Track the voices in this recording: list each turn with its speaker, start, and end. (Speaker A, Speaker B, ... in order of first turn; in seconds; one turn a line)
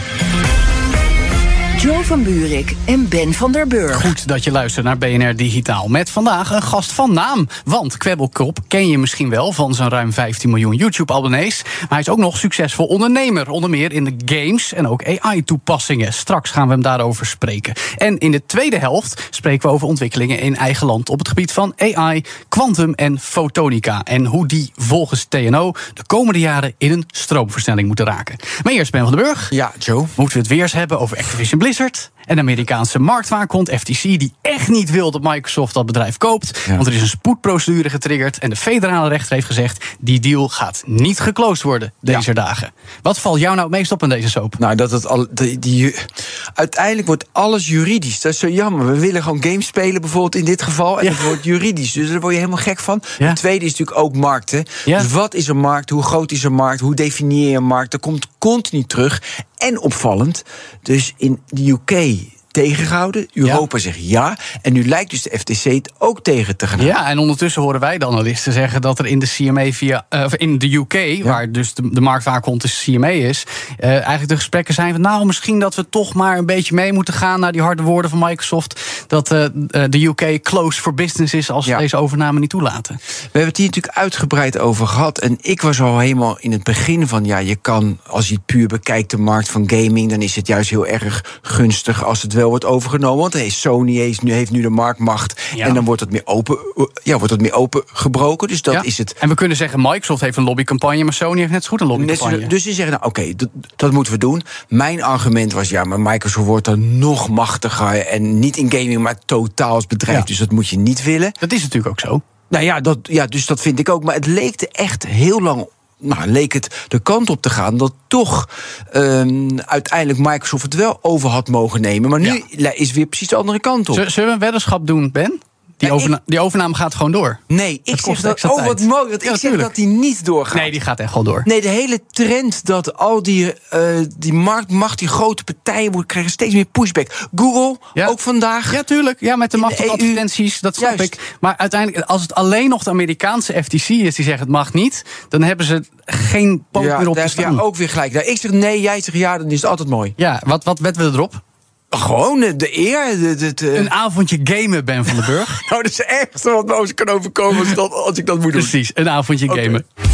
Speaker A: 1.8-4.2
Speaker B: 3.9-29.5
Speaker C: 29.5-30.1
Speaker B: 30.2-44.6
Speaker C: 44.6-66.9
Speaker B: 51.0-51.4
Speaker B: 66.8-83.0
Speaker C: 83.3-99.2
Speaker B: 95.5-95.8
Speaker B: 98.7-102.5
Speaker C: 102.0-111.3
Speaker B: 111.4-112.2
Speaker C: 112.5-124.0
Speaker B: 123.9-129.7
Speaker C: 125.8-126.2
Speaker C: 127.5-130.8
Speaker B: 130.5-131.5
Speaker C: 131.4-138.8
Speaker B: 138.7-147.6
Speaker C: 139.6-140.2
Speaker C: 140.8-141.2
Speaker C: 146.8-150.2
Speaker B: 150.2-151.4
Speaker C: 151.9-153.9
Speaker B: 153.8-155.6
Speaker C: 155.1-158.8
Speaker B: 158.5-159.8
Speaker C: 159.5-159.8